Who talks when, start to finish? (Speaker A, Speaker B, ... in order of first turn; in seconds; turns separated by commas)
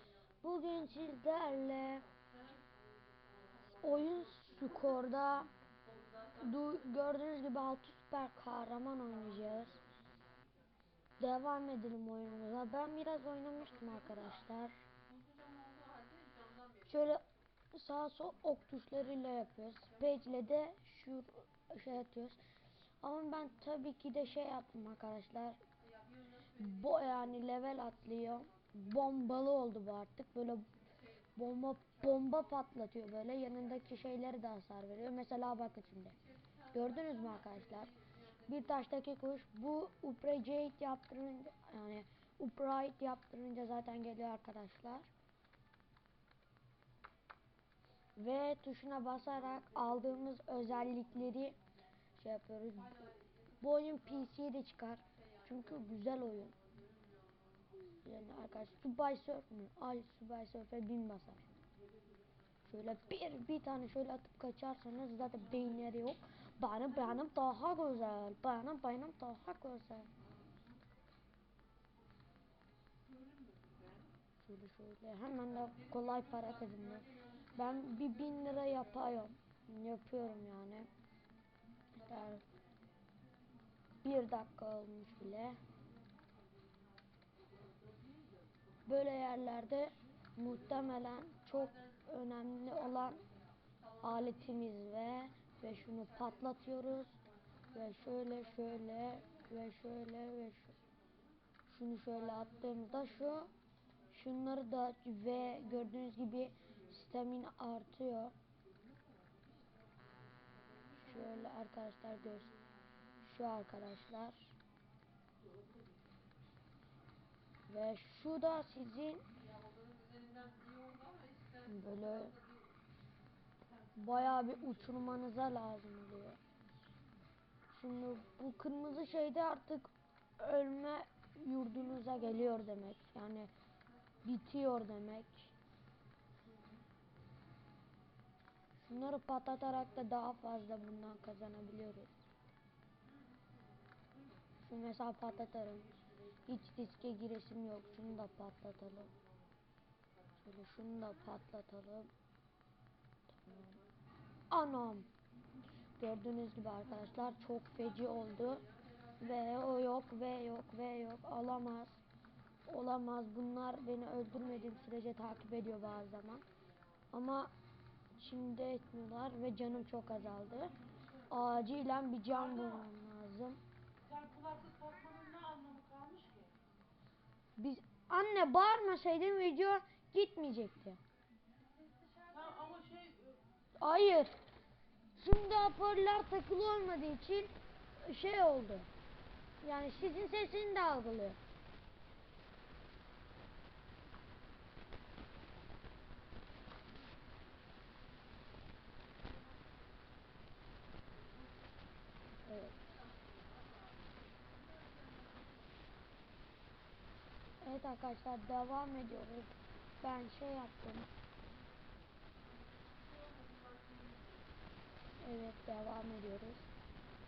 Speaker A: 0.4-2.1, Speaker B: 3.2-3.5, Speaker A: 3.6-5.5, Speaker B: 6.0-6.3, Speaker A: 6.3-9.8, Speaker A: 11.2-14.8, Speaker B: 15.1-16.7, Speaker A: 16.8-22.4, Speaker A: 23.0-25.6, Speaker A: 26.5-30.7, Speaker A: 31.4-36.2, Speaker A: 36.7-45.1, Speaker A: 48.1-51.6, Speaker A: 52.1-56.5, Speaker A: 57.9-61.5, Speaker A: 62.6-70.1, Speaker B: 73.4-73.9, Speaker A: 74.4-80.9, Speaker A: 81.9-82.4, Speaker A: 84.0-85.6, Speaker A: 88.8-93.2, Speaker A: 94.0-97.2, Speaker A: 97.7-100.8, Speaker A: 101.7-103.5, Speaker A: 104.1-108.3, Speaker A: 110.9-112.5, Speaker A: 113.2-114.5, Speaker A: 117.7-119.3, Speaker B: 119.6-121.7, Speaker A: 121.6-122.4, Speaker A: 124.0-126.4, Speaker A: 127.7-133.5, Speaker A: 134.2-135.5, Speaker A: 138.8-142.1, Speaker A: 144.6-145.9, Speaker A: 146.4-149.1, Speaker A: 150.4-152.1, Speaker A: 153.4-153.8, Speaker A: 154.5-155.1, Speaker A: 156.0-162.0, Speaker A: 162.7-166.4, Speaker A: 167.1-167.5, Speaker A: 168.2-170.8, Speaker A: 171.3-173.6, Speaker B: 174.1-176.5, Speaker A: 177.6-181.0, Speaker B: 182.0-183.4, Speaker A: 183.8-184.4, Speaker A: 185.2-188.9, Speaker A: 189.6-191.4, Speaker A: 202.4-202.8, Speaker A: 207.6-211.1, Speaker B: 213.4-214.2, Speaker A: 215.2-216.7